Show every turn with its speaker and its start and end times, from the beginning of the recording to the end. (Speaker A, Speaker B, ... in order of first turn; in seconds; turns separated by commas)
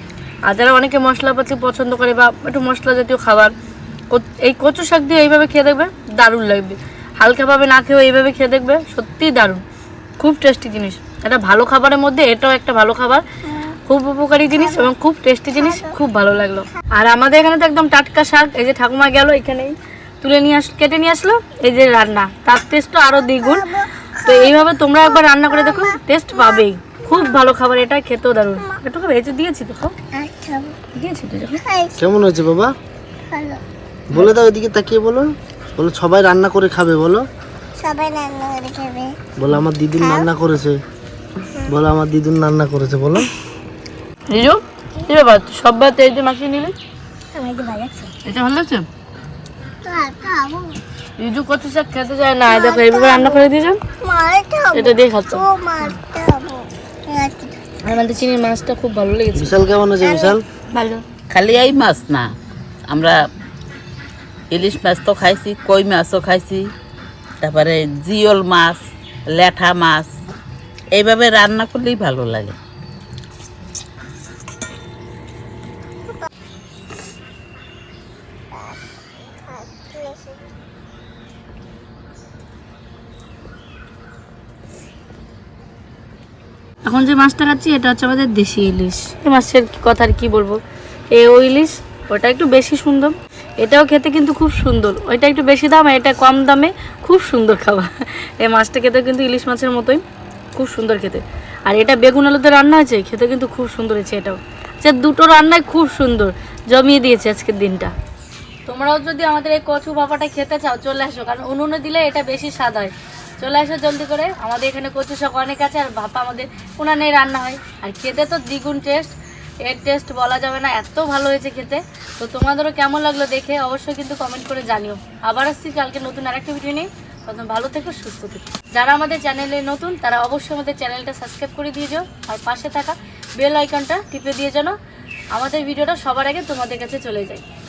Speaker A: 0.5-3.5, Speaker A: 4.1-9.6, Speaker A: 10.2-13.2, Speaker A: 13.9-23.7, Speaker B: 14.6-14.9, Speaker B: 15.6-16.0, Speaker B: 23.2-27.4, Speaker A: 24.2-29.9, Speaker B: 30.1-30.8, Speaker A: 30.9-31.6, Speaker B: 31.6-32.0, Speaker C: 32.0-32.7, Speaker B: 33.3-33.6, Speaker C: 34.1-37.2, Speaker B: 37.8-39.2, Speaker C: 39.4-40.8, Speaker B: 40.0-40.3, Speaker C: 41.7-43.3, Speaker A: 44.3-46.8, Speaker B: 47.3-48.1, Speaker A: 48.2-48.9, Speaker B: 49.9-50.8, Speaker A: 51.2-53.8, Speaker B: 52.5-53.5, Speaker B: 54.0-57.6, Speaker A: 54.7-55.5, Speaker A: 57.8-59.6, Speaker C: 59.4-60.4, Speaker B: 60.0-60.4, Speaker A: 60.7-61.0, Speaker D: 61.3-62.3, Speaker D: 62.9-63.2, Speaker D: 64.5-66.6, Speaker D: 67.4-68.8, Speaker D: 69.3-70.1, Speaker D: 70.9-72.5, Speaker B: 78.5-80.5, Speaker A: 86.9-90.6, Speaker A: 91.1-100.0, Speaker A: 100.5-107.9, Speaker A: 108.7-134.8, Speaker A: 135.3-137.4